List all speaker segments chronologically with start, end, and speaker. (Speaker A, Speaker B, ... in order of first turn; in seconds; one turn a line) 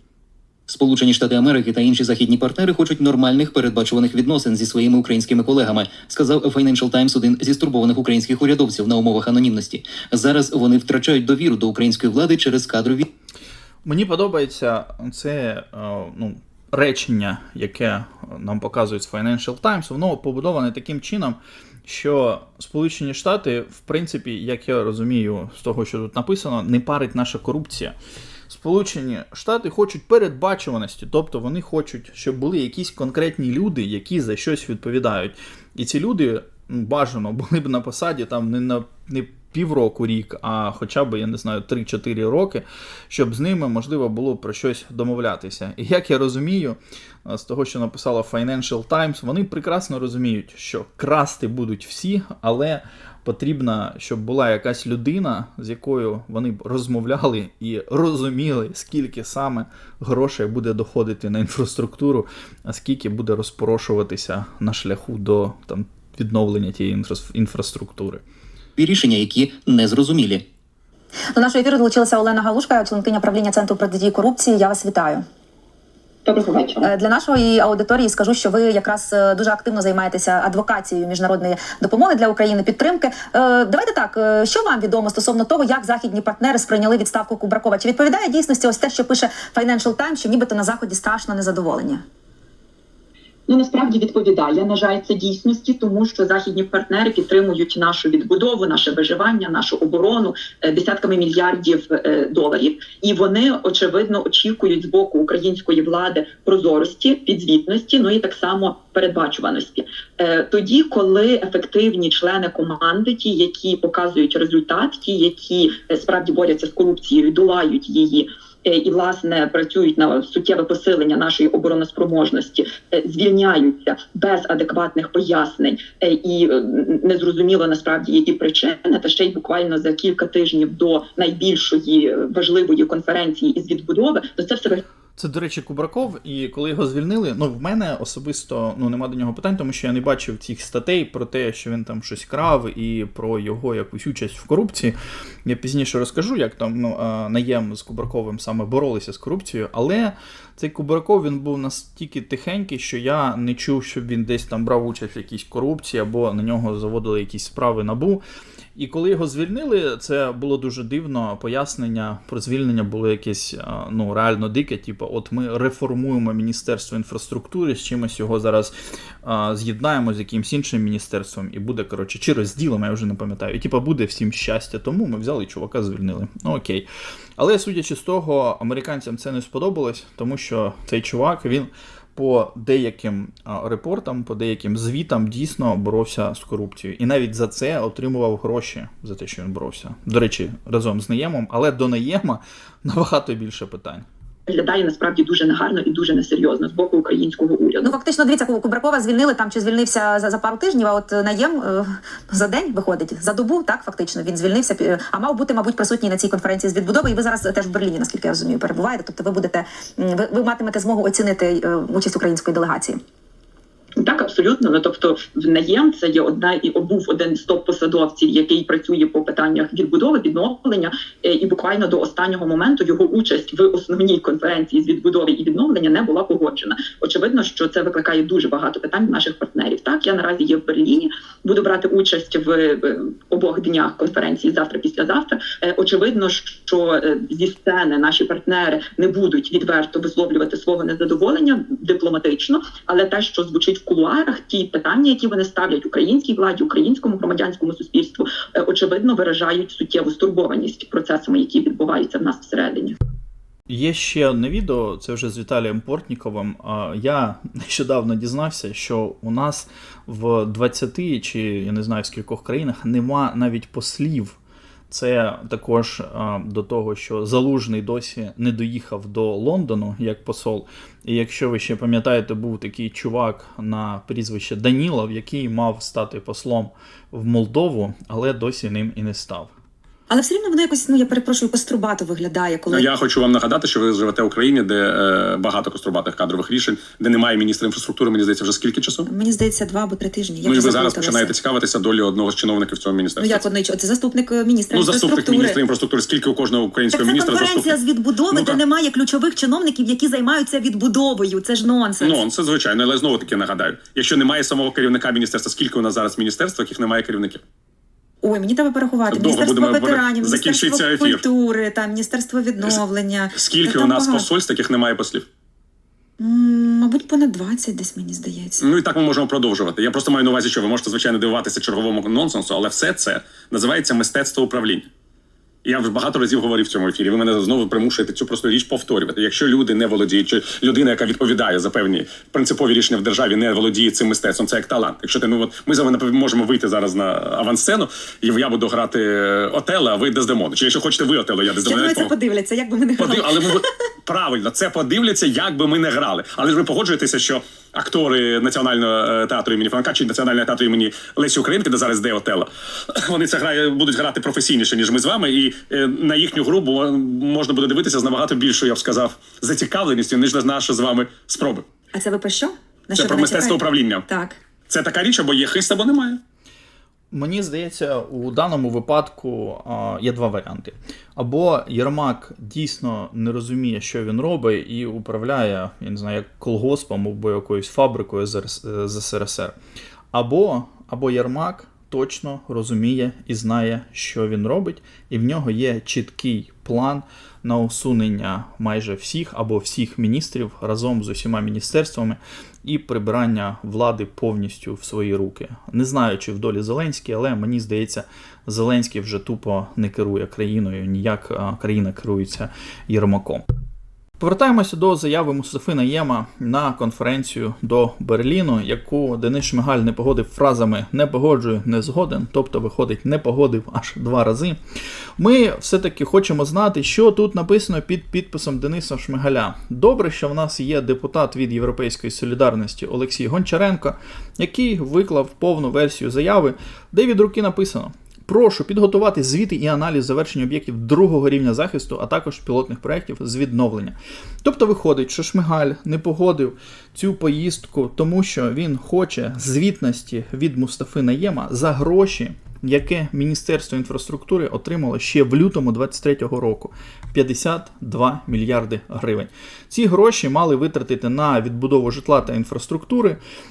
Speaker A: 0.7-13.1
Speaker B: 13.8-27.9
Speaker B: 28.5-68.2
Speaker A: 68.8-70.5
Speaker C: 71.3-75.2
Speaker D: 76.3-76.9
Speaker C: 76.8-92.0
Speaker D: 93.5-134.8
Speaker B: 135.2-158.2
Speaker B: 158.8-194.1
Speaker D: 194.5-197.9
Speaker C: 197.8-213.0
Speaker D: 214.0-252.9
Speaker B: 253.7-264.4
Speaker B: 264.9-279.5
Speaker C: 280.1-282.9
Speaker E: 282.7-289.1
Speaker C: 289.1-291.4
Speaker E: 290.4-293.5
Speaker C: 293.2-295.6
Speaker E: 294.7-297.8
Speaker C: 296.9-302.2
Speaker E: 298.3-298.6
Speaker E: 302.0-307.4
Speaker C: 308.2-314.3
Speaker E: 309.1-311.2
Speaker E: 313.4-315.3
Speaker C: 316.2-318.6
Speaker E: 318.6-324.9
Speaker E: 325.6-342.1
Speaker C: 341.6-343.6
Speaker E: 343.0-361.6
Speaker C: 361.9-364.4
Speaker E: 363.0-364.1
Speaker E: 364.7-366.2
Speaker B: 367.1-379.6
Speaker B: 380.1-403.4
Speaker B: 404.2-414.6
Speaker B: 415.2-453.2